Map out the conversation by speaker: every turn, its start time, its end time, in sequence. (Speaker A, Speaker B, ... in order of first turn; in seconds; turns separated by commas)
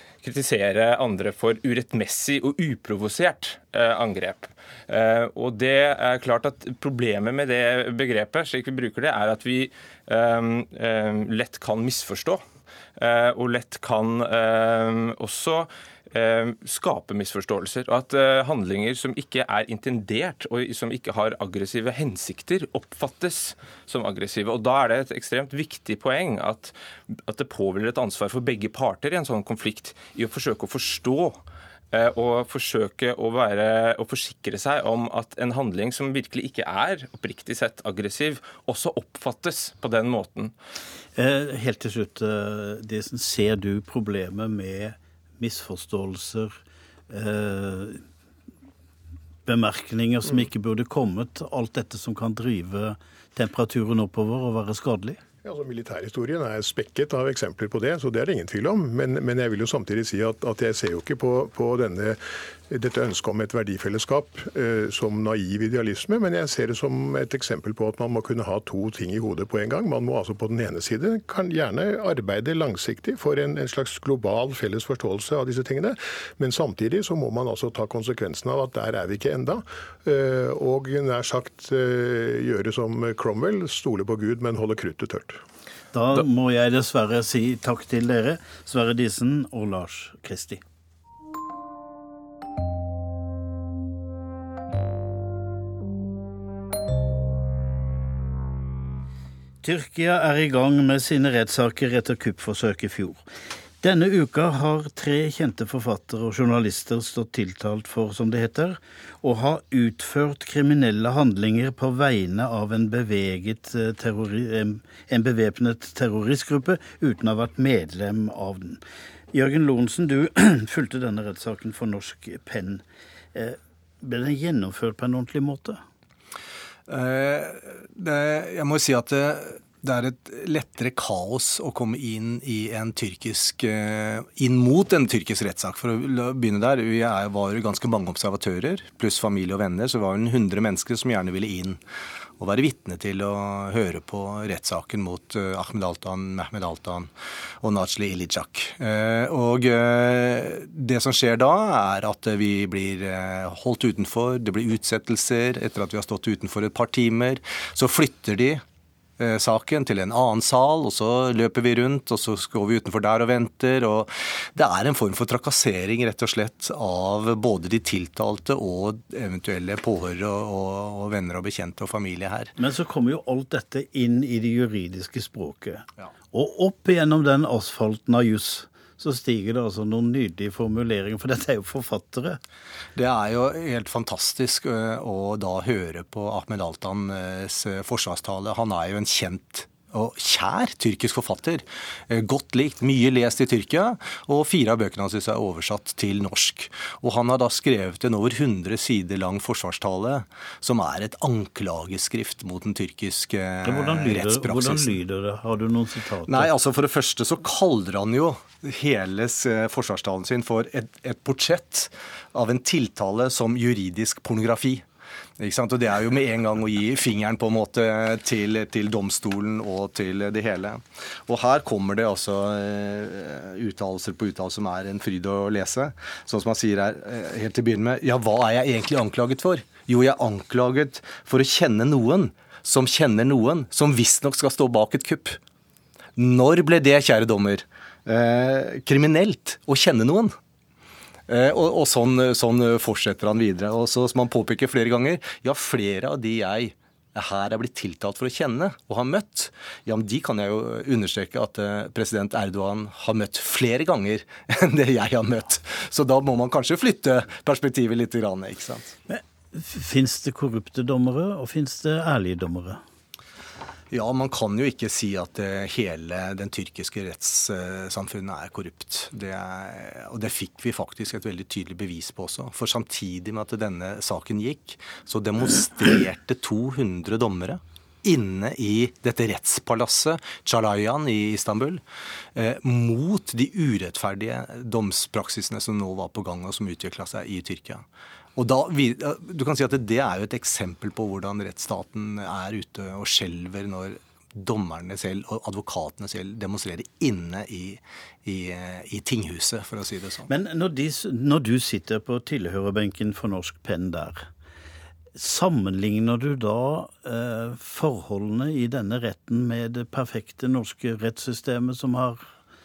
Speaker A: 0.2-12.4, Speaker A: 13.0-40.5, Speaker B: 41.2-46.6, Speaker B: 47.1-48.0, Speaker B: 49.5-55.2, Speaker C: 55.4-85.4, Speaker B: 85.9-90.6, Speaker B: 99.6-103.2, Speaker B: 103.8-118.8, Speaker B: 119.3-125.8, Speaker D: 126.9-141.8, Speaker D: 142.4-147.1, Speaker D: 147.6-158.6, Speaker D: 159.2-172.6, Speaker B: 172.6-182.4, Speaker D: 182.9-205.0, Speaker B: 203.6-206.5, Speaker D: 206.3-214.9, Speaker D: 215.4-235.4, Speaker D: 236.2-240.3, Speaker D: 241.3-258.9, Speaker B: 259.1-262.8, Speaker D: 263.9-281.8, Speaker D: 282.4-300.3, Speaker B: 300.3-304.3, Speaker B: 305.2-312.3